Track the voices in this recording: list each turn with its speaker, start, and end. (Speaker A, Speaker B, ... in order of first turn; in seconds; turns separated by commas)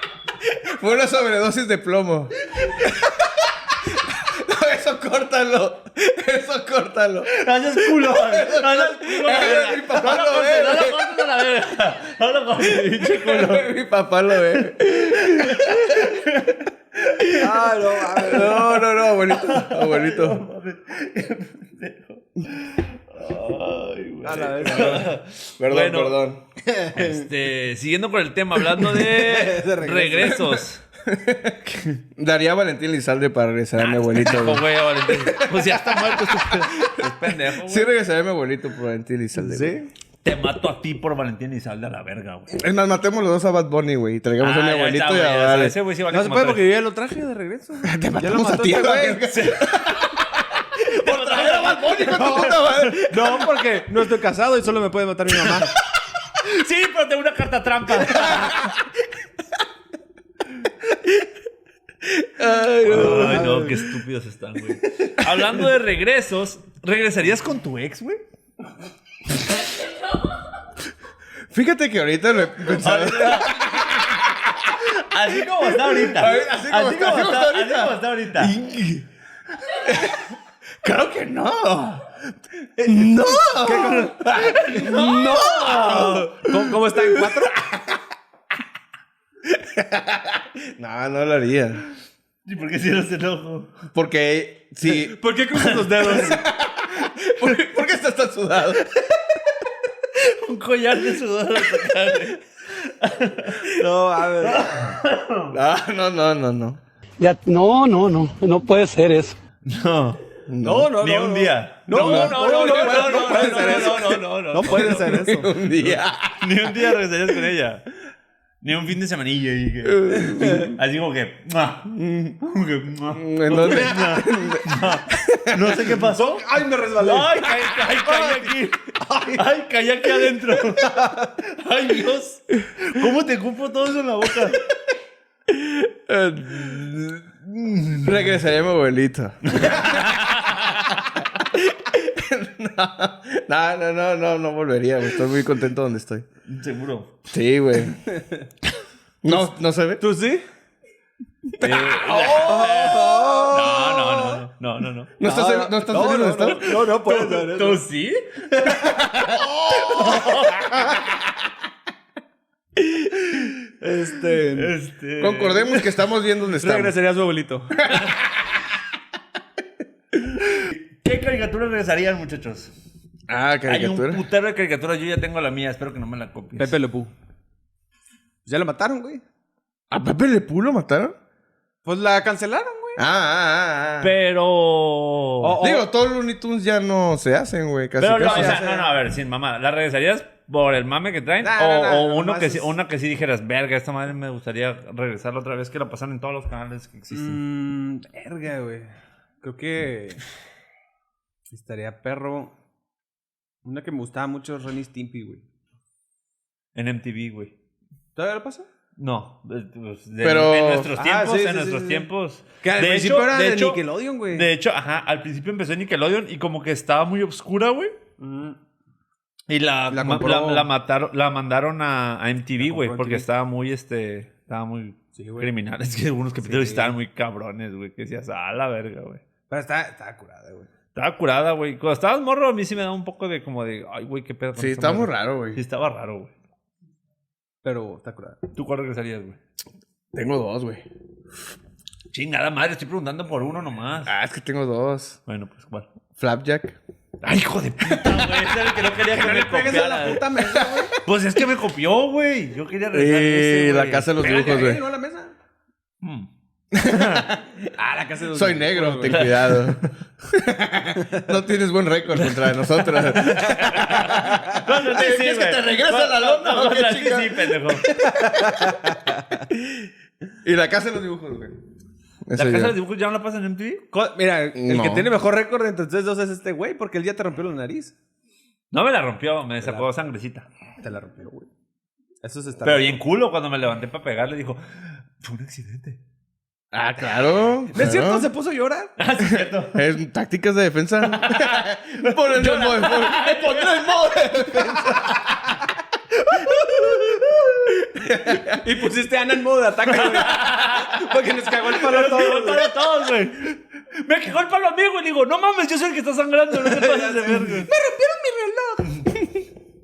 Speaker A: 0.4-11.2, Speaker B: 7.2-13.7, Speaker A: 12.6-16.1, Speaker B: 14.5-17.4, Speaker C: 17.3-18.8, Speaker A: 18.1-20.4, Speaker B: 18.4-26.2, Speaker C: 24.2-25.1, Speaker A: 24.6-25.0, Speaker A: 25.6-26.4, Speaker C: 26.6-27.2, Speaker B: 26.9-30.8, Speaker C: 28.7-30.5, Speaker A: 31.0-31.6, Speaker B: 31.7-32.0, Speaker A: 32.1-36.9, Speaker B: 33.8-37.9, Speaker A: 37.6-39.8, Speaker C: 39.4-39.9, Speaker B: 40.2-42.6, Speaker A: 42.5-45.8, Speaker B: 44.4-46.7, Speaker C: 46.1-49.3, Speaker A: 47.8-53.3, Speaker B: 49.2-50.2, Speaker B: 50.7-53.4, Speaker C: 53.1-55.7, Speaker B: 56.4-58.7, Speaker A: 58.3-58.7, Speaker A: 62.0-63.7, Speaker B: 62.8-68.2, Speaker C: 62.9-63.9, Speaker A: 71.5-79.1, Speaker B: 72.7-73.9, Speaker B: 74.8-78.5, Speaker A: 79.6-80.2, Speaker A: 80.8-82.2, Speaker A: 82.8-87.9, Speaker C: 82.8-84.1, Speaker B: 83.6-86.3, Speaker C: 84.7-87.6, Speaker A: 89.5-91.8, Speaker B: 92.4-93.8, Speaker A: 93.9-95.2, Speaker C: 94.8-96.4, Speaker B: 95.7-96.2, Speaker A: 96.1-98.9, Speaker B: 100.1-103.8, Speaker C: 103.6-105.0, Speaker B: 104.4-105.6, Speaker A: 105.5-106.8, Speaker D: 107.2-109.4, Speaker B: 109.6-115.3, Speaker A: 110.5-110.9, Speaker C: 110.6-115.6, Speaker A: 111.9-116.9, Speaker B: 115.9-117.8, Speaker B: 118.6-134.6, Speaker A: 119.8-120.7, Speaker C: 120.3-120.7, Speaker A: 121.9-122.3, Speaker A: 123.1-125.9, Speaker C: 123.5-124.1, Speaker C: 126.0-128.4, Speaker C: 130.8-131.3, Speaker A: 135.5-140.7, Speaker B: 139.5-141.1, Speaker A: 141.4-146.2, Speaker B: 146.4-147.2, Speaker A: 147.3-148.0, Speaker C: 148.1-148.5, Speaker A: 149.2-150.0, Speaker C: 149.3-150.4, Speaker B: 151.6-155.1, Speaker C: 151.6-154.4, Speaker A: 155.2-156.7, Speaker C: 155.2-157.8, Speaker B: 156.4-160.9, Speaker C: 158.6-158.9, Speaker A: 159.2-160.4, Speaker C: 163.7-164.7, Speaker B: 164.5-165.9, Speaker A: 165.2-166.9, Speaker C: 166.6-167.9, Speaker B: 170.5-172.7, Speaker A: 173.3-174.2, Speaker B: 173.7-176.7, Speaker C: 176.6-177.1, Speaker C: 178.4-179.2, Speaker A: 179.9-181.1, Speaker C: 181.8-183.0, Speaker A: 182.9-184.1, Speaker B: 184.0-185.6, Speaker C: 185.4-185.9, Speaker A: 185.6-188.6, Speaker B: 188.0-197.4, Speaker C: 188.2-188.9, Speaker C: 191.4-192.7, Speaker C: 197.1-200.2, Speaker C: 201.5-202.5, Speaker C: 203.6-205.4, Speaker B: 206.7-207.5, Speaker C: 208.2-208.7, Speaker B: 209.0-218.0, Speaker A: 210.2-210.9, Speaker C: 210.9-212.1, Speaker C: 212.6-214.5, Speaker C: 218.2-218.6, Speaker B: 219.5-229.2, Speaker C: 219.9-220.7, Speaker C: 222.6-223.2, Speaker C: 225.1-225.5, Speaker C: 226.4-226.9, Speaker C: 229.5-230.7, Speaker B: 230.9-236.3, Speaker A: 234.6-235.6, Speaker C: 237.6-238.4, Speaker B: 238.5-239.4, Speaker A: 240.1-240.8, Speaker B: 242.1-244.1, Speaker A: 244.0-245.2, Speaker B: 245.2-245.9, Speaker A: 246.2-246.8, Speaker B: 247.2-250.3, Speaker C: 249.1-251.0, Speaker A: 250.5-250.8, Speaker B: 251.0-254.6, Speaker A: 252.9-254.8, Speaker C: 254.2-255.3, Speaker B: 256.0-256.3, Speaker A: 256.7-257.6, Speaker B: 256.9-257.2, Speaker C: 257.7-259.3, Speaker A: 258.3-268.9, Speaker B: 259.1-259.9, Speaker B: 262.2-267.9, Speaker C: 267.9-269.4, Speaker A: 269.5-269.9, Speaker A: 270.4-271.6, Speaker A: 272.2-272.8, Speaker B: 272.3-273.8, Speaker C: 273.9-277.9, Speaker A: 274.5-275.1, Speaker B: 278.7-280.5, Speaker C: 279.6-279.9, Speaker C: 280.8-281.5, Speaker C: 282.2-283.0, Speaker B: 282.6-286.0, Speaker A: 286.7-288.3, Speaker C: 287.7-288.9, Speaker B: 289.0-289.8, Speaker A: 289.2-295.6, Speaker B: 291.0-294.4, Speaker B: 296.7-297.0, Speaker A: 297.9-298.6, Speaker C: 298.5-302.7, Speaker B: 299.9-301.0, Speaker B: 301.6-307.7, Speaker C: 306.5-309.1